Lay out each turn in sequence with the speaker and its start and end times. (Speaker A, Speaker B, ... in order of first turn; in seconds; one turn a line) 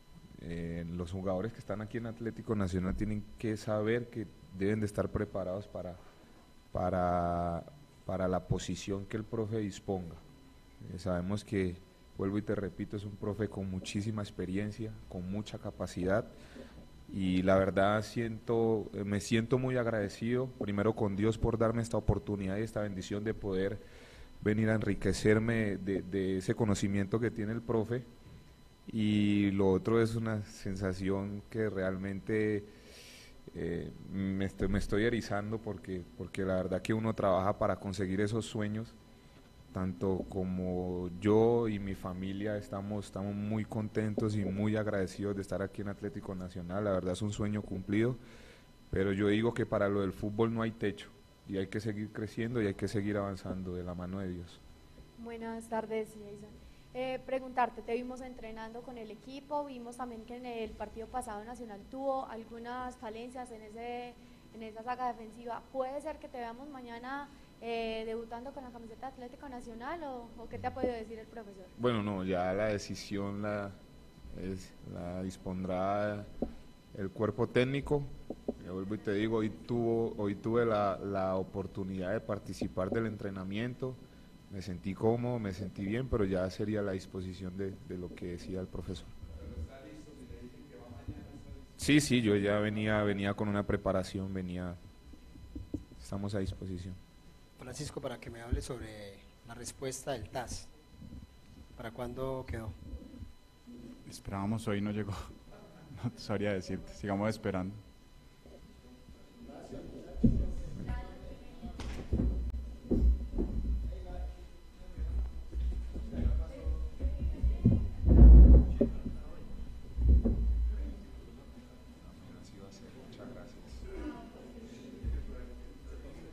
Speaker A: 0.4-6.0
Speaker A: 6.7-10.2
Speaker A: 10.8-16.3
Speaker A: 17.1-23.8
Speaker A: 24.4-28.1
Speaker A: 28.9-32.7
Speaker A: 33.5-39.0
Speaker A: 39.7-48.2
Speaker A: 48.9-54.6
Speaker B: 55.2-71.7
Speaker A: 71.8-73.8
Speaker A: 74.3-76.3
Speaker A: 76.9-84.0
Speaker A: 84.5-89.1
Speaker A: 91.8-94.8
Speaker A: 96.0-97.0
Speaker C: 97.6-100.7
Speaker C: 101.8-102.8
Speaker D: 104.1-105.3
Speaker D: 105.9-107.8
Speaker A: 122.1-123.8